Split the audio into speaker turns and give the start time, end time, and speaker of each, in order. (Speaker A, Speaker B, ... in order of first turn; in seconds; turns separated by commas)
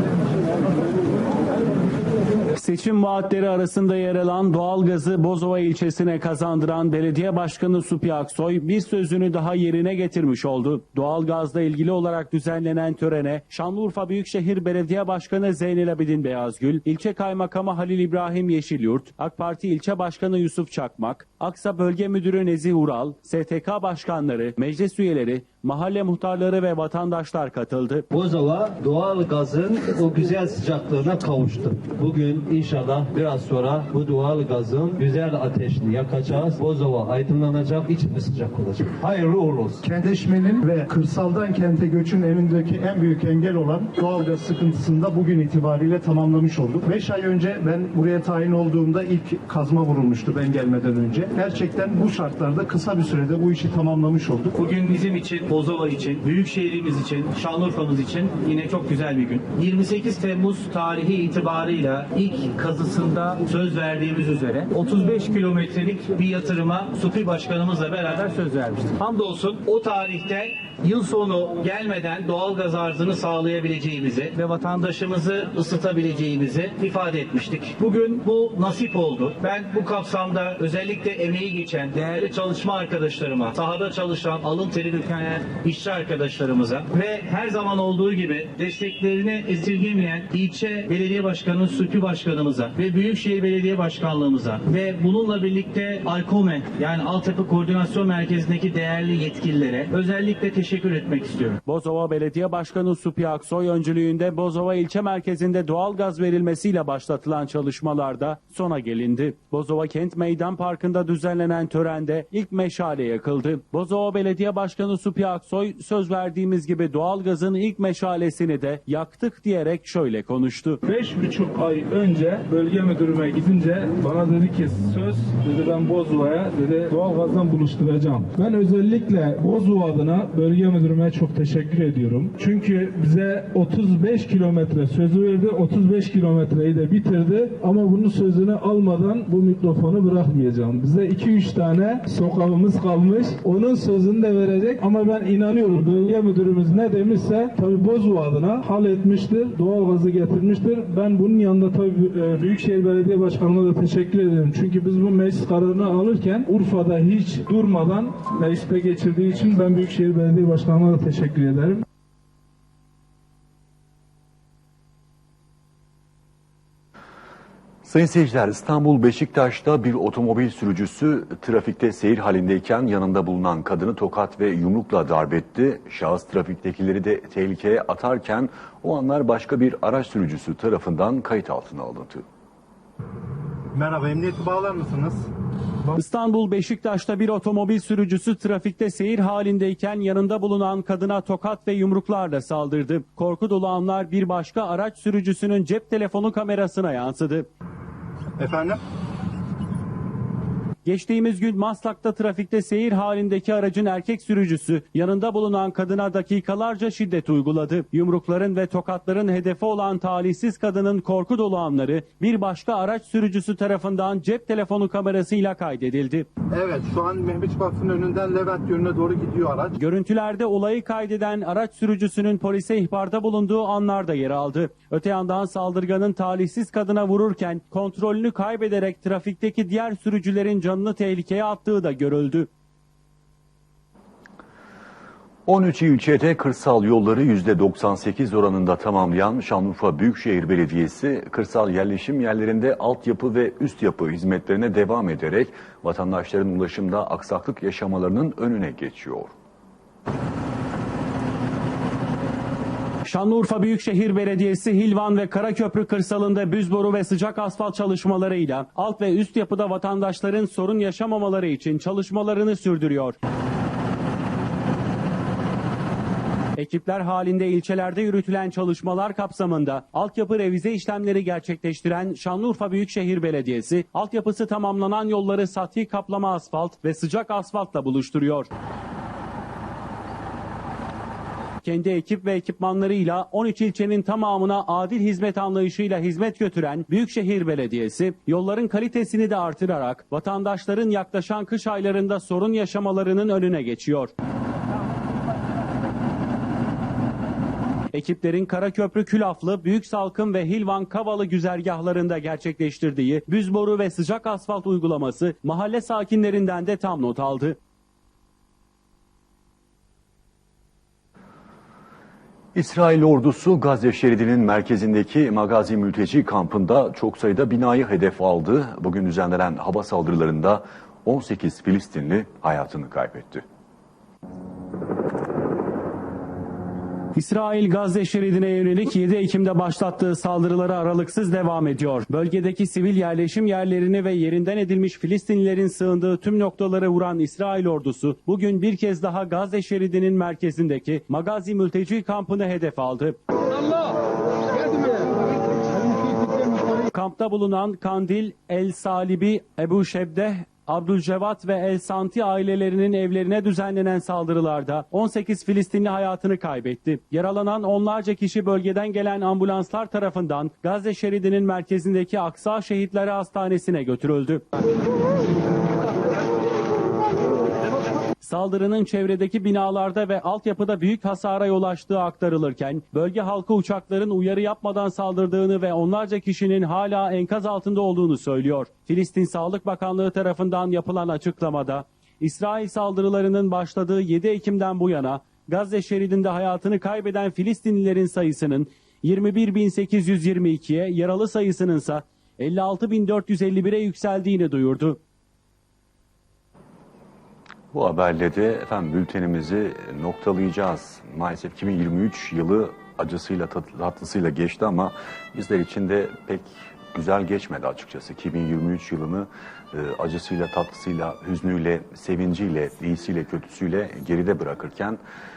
Speaker A: 2.5-28.1, Speaker B: 28.1-39.8, Speaker C: 39.8-54.5, Speaker D: 54.5-101.6, Speaker A: 101.7-120.8, Speaker E: 120.8-161.8, Speaker F: 167.8-182.2, Speaker C: 183.7-185.3, Speaker A: 185.9-197.5, Speaker C: 198.4-198.8, Speaker A: 200.8-216.3, Speaker C: 216.5-219.7, Speaker A: 219.8-232.5, Speaker F: 235.4-249.3, Speaker A: 253.1-263.1, Speaker A: 266.6-278.5, Speaker A: 281.6-294.1, Speaker A: 297.9-307.6, Speaker F: 312.5-323.4, Speaker A: 327.1-343.2, Speaker A: 346.7-364.4, Speaker A: 368.2-395.0, Speaker F: 397.7-415.0